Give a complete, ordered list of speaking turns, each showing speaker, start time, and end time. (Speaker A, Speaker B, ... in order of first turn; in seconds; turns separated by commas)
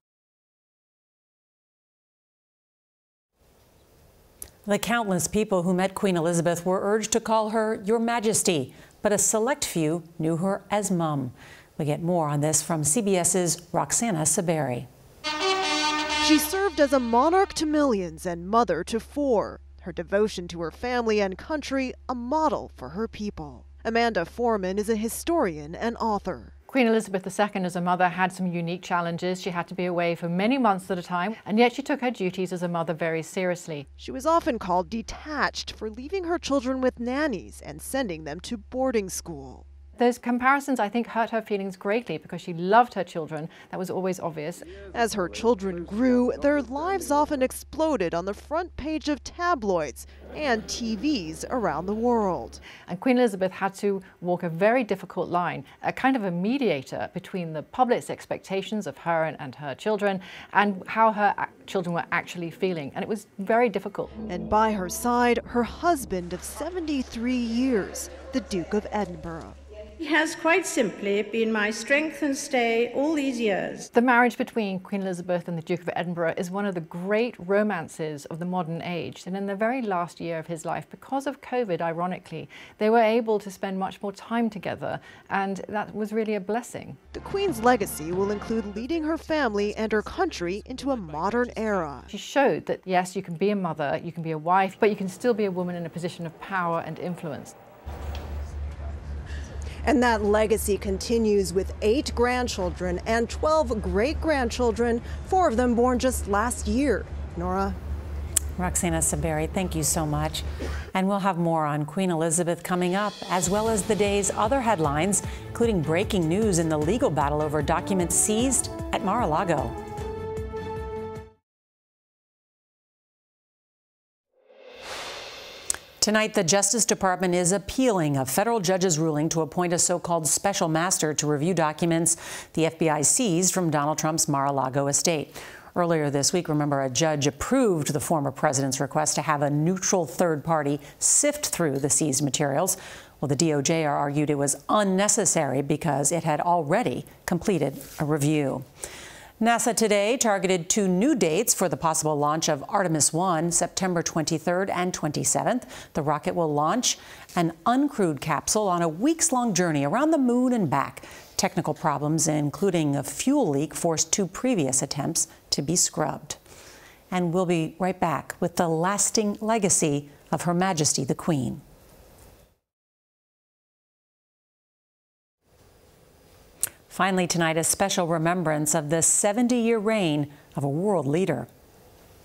Speaker A: 4.7-14.9, Speaker B: 16.2-26.5, Speaker C: 26.7-33.9, Speaker B: 34.0-39.6, Speaker C: 40.0-44.7, Speaker B: 44.9-52.6, Speaker C: 52.9-64.1, Speaker B: 64.3-69.5, Speaker D: 70.0-73.9, Speaker C: 73.9-87.0, Speaker B: 87.1-92.1, Speaker C: 92.1-97.5, Speaker B: 99.8-107.8, Speaker A: 108.6-119.7, Speaker A: 126.0-148.6, Speaker A: 149.4-166.4, Speaker A: 167.1-171.6, Speaker A: 176.9-181.5